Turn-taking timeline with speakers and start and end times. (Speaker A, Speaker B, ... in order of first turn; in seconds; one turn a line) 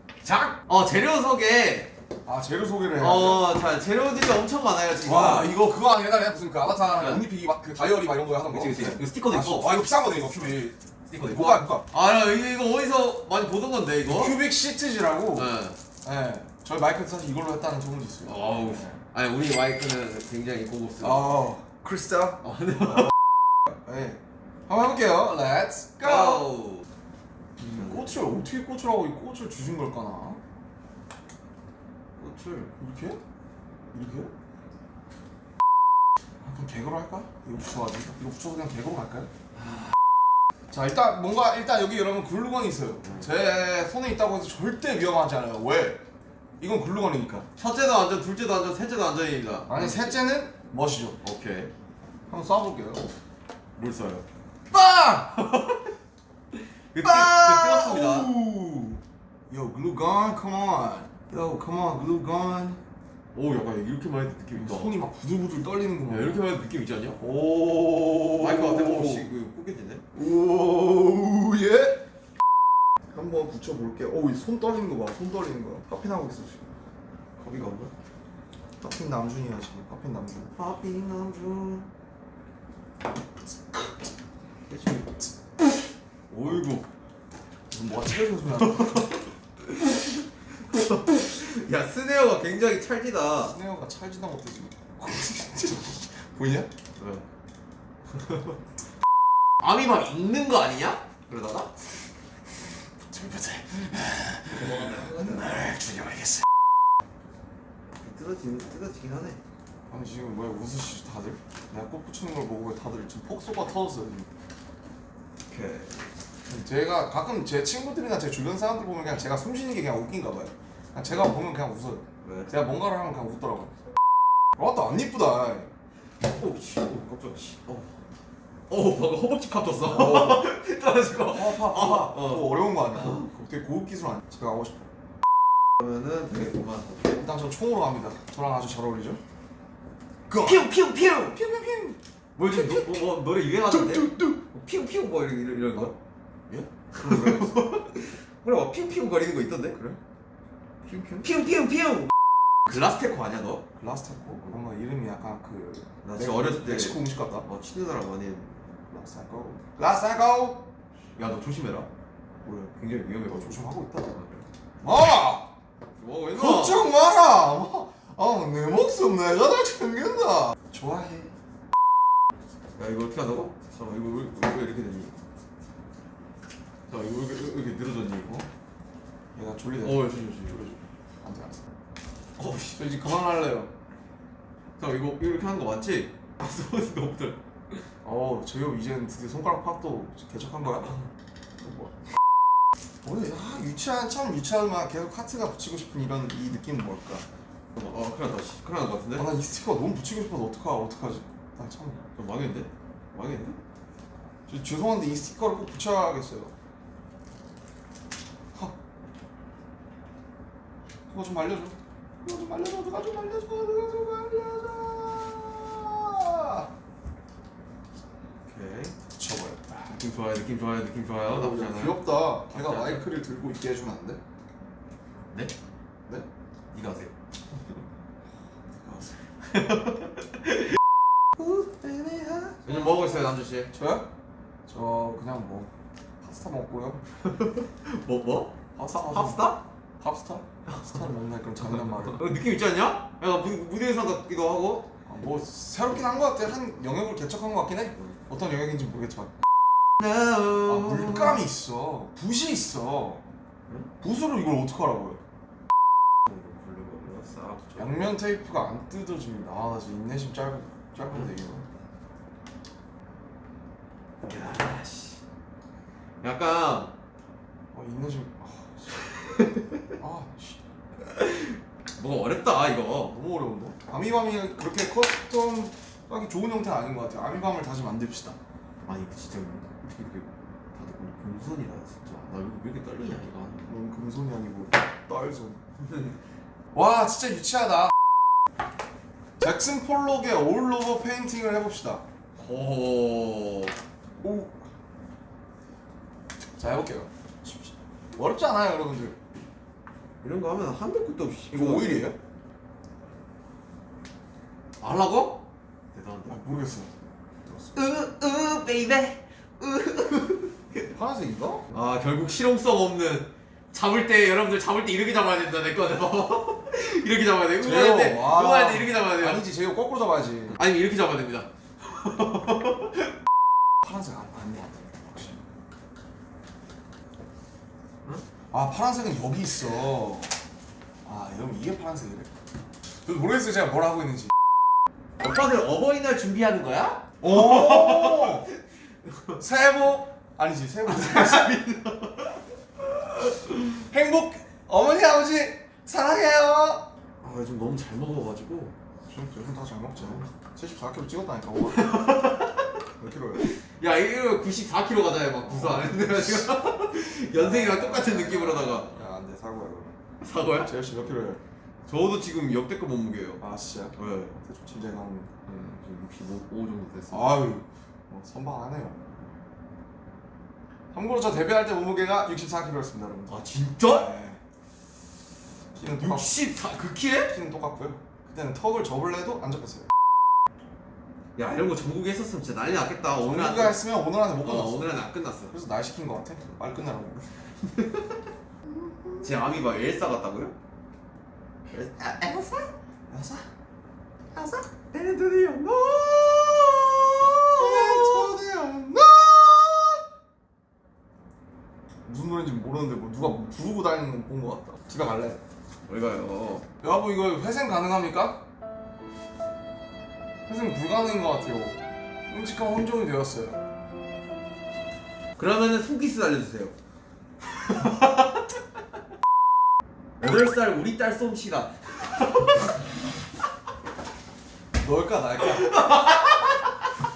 Speaker A: 0.2-1.9
Speaker B: 2.2-3.5
Speaker A: 3.0-5.5
Speaker B: 5.0-11.8
Speaker A: 6.8-7.2
Speaker A: 8.5-14.4
Speaker B: 14.1-15.5
Speaker A: 15.3-15.8
Speaker B: 16.0-19.0
Speaker A: 18.2-21.5
Speaker B: 21.0-22.4
Speaker A: 22.4-23.1
Speaker B: 23.7-26.4
Speaker A: 26.0-26.9
Speaker B: 27.6-30.4
Speaker A: 32.2-32.7
Speaker B: 32.8-33.2
Speaker B: 33.9-34.3
Speaker B: 36.4-39.3
Speaker B: 40.7-46.0
Speaker A: 43.0-43.3
Speaker B: 46.6-47.5
Speaker A: 47.6-50.2
Speaker B: 49.7-51.2
Speaker A: 51.2-51.7
Speaker B: 52.3-53.1
Speaker A: 53.8-54.2
Speaker B: 54.7-55.4
Speaker A: 55.3-55.8
Speaker A: 56.9-58.3
Speaker B: 57.0-62.8
Speaker A: 63.3-65.0
Speaker B: 64.5-66.4
Speaker A: 66.1-67.2
Speaker B: 67.2-69.3
Speaker A: 68.4-70.0
Speaker B: 70.1-72.0
Speaker B: 73.1-76.7
Speaker A: 77.4-77.9
Speaker B: 78.8-80.5
Speaker A: 80.5-81.9
Speaker A: 84.7-85.2
Speaker A: 86.3-86.9
Speaker B: 87.7-89.1
Speaker A: 88.6-93.6
Speaker B: 93.4-96.7
Speaker A: 97.0-97.2
Speaker A: 99.6-101.7
Speaker B: 103.1-106.4
Speaker A: 104.5-105.6
Speaker A: 108.0-109.4
Speaker B: 109.9-114.3
Speaker A: 115.5-116.1
Speaker B: 116.5-123.7
Speaker A: 122.2-122.7
Speaker B: 124.6-125.7
Speaker A: 126.2-127.9
Speaker A: 128.7-133.3
Speaker B: 129.8-130.5
Speaker B: 131.3-134.9
Speaker A: 135.8-137.2
Speaker B: 137.2-139.2
Speaker B: 140.3-140.7
Speaker A: 140.4-141.4
Speaker B: 141.3-142.0
Speaker A: 142.3-145.9
Speaker B: 142.5-142.9
Speaker B: 143.7-144.4
Speaker B: 146.5-147.7
Speaker A: 146.9-149.8
Speaker B: 149.7-150.0
Speaker B: 150.9-151.2
Speaker A: 151.2-152.1
Speaker A: 152.7-153.7
Speaker B: 153.8-157.5
Speaker A: 156.0-158.6
Speaker B: 158.9-160.7
Speaker A: 161.2-161.9
Speaker A: 162.4-164.5
Speaker B: 163.3-164.2
Speaker B: 164.8-165.5
Speaker A: 165.9-166.9
Speaker B: 166.3-170.6
Speaker A: 170.7-171.3
Speaker A: 172.8-175.2
Speaker A: 176.9-178.5
Speaker B: 179.3-180.1
Speaker A: 179.8-180.8
Speaker B: 181.2-181.6
Speaker A: 182.4-182.8
Speaker B: 182.7-183.7
Speaker A: 184.8-187.8
Speaker B: 188.0-191.0
Speaker B: 191.6-191.9
Speaker B: 193.0-197.2
Speaker A: 197.8-199.3
Speaker B: 199.1-202.0
Speaker A: 202.2-203.6
Speaker B: 204.5-206.5
Speaker B: 211.1-216.7
Speaker A: 218.4-219.0
Speaker B: 219.2-220.0
Speaker A: 219.9-223.1
Speaker B: 221.2-224.2
Speaker A: 226.7-227.1
Speaker B: 228.8-229.1
Speaker A: 229.5-230.4
Speaker B: 231.6-232.9
Speaker A: 232.6-233.7
Speaker B: 233.7-234.1
Speaker B: 234.7-235.7
Speaker B: 236.2-237.0
Speaker A: 237.2-238.6
Speaker B: 238.7-242.2
Speaker A: 239.1-239.6
Speaker A: 241.8-244.9
Speaker B: 245.0-249.3
Speaker A: 250.0-251.5
Speaker B: 250.6-253.2
Speaker B: 254.0-255.2
Speaker A: 256.2-258.1
Speaker B: 257.8-261.6
Speaker A: 264.2-265.2
Speaker A: 266.2-266.9
Speaker B: 267.7-269.0
Speaker B: 270.0-270.6
Speaker A: 271.2-273.1
Speaker B: 273.1-278.4
Speaker A: 278.8-283.7
Speaker B: 283.7-285.6
Speaker A: 285.8-286.1
Speaker B: 286.7-287.9
Speaker B: 289.4-292.0
Speaker A: 292.4-293.8
Speaker B: 294.2-294.7
Speaker B: 296.6-299.2
Speaker A: 300.2-302.1
Speaker B: 301.5-302.1
Speaker A: 304.8-305.4
Speaker A: 305.9-306.4
Speaker B: 306.2-306.9
Speaker B: 307.5-307.7
Speaker A: 307.7-310.8
Speaker B: 310.9-311.6
Speaker A: 311.7-319.5
Speaker B: 317.6-320.6
Speaker A: 320.5-322.9
Speaker B: 323.8-325.4
Speaker B: 328.5-330.3
Speaker B: 331.0-332.3
Speaker B: 333.0-334.3
Speaker A: 335.2-338.5
Speaker B: 337.2-338.5
Speaker B: 339.4-341.6
Speaker A: 340.9-342.4
Speaker B: 343.8-346.9
Speaker A: 347.2-348.7
Speaker B: 349.1-352.0
Speaker A: 350.0-350.2
Speaker A: 351.7-352.7
Speaker B: 353.0-353.5
Speaker A: 353.4-359.0
Speaker B: 355.4-356.3
Speaker B: 357.3-359.9
Speaker A: 360.2-360.7
Speaker B: 360.6-361.4
Speaker A: 361.9-363.4
Speaker B: 363.4-365.3
Speaker A: 363.9-364.4
Speaker A: 365.5-367.5
Speaker B: 367.1-369.0
Speaker B: 370.9-374.4
Speaker A: 373.3-374.1
Speaker B: 375.7-376.4
Speaker A: 375.9-377.3
Speaker B: 377.3-379.9
Speaker A: 381.4-383.8
Speaker B: 383.2-387.3
Speaker A: 384.4-385.5
Speaker A: 387.6-388.2
Speaker B: 388.7-389.3
Speaker A: 389.2-390.5
Speaker A: 391.7-392.7
Speaker B: 393.1-393.5
Speaker A: 394.3-398.3
Speaker B: 397.6-400.0
Speaker B: 402.0-405.4
Speaker A: 405.9-406.6
Speaker B: 406.8-408.4
Speaker B: 410.5-411.8
Speaker B: 412.3-413.6
Speaker A: 415.4-416.7
Speaker A: 417.7-418.1
Speaker A: 420.2-422.7
Speaker B: 424.8-425.7
Speaker A: 425.4-426.8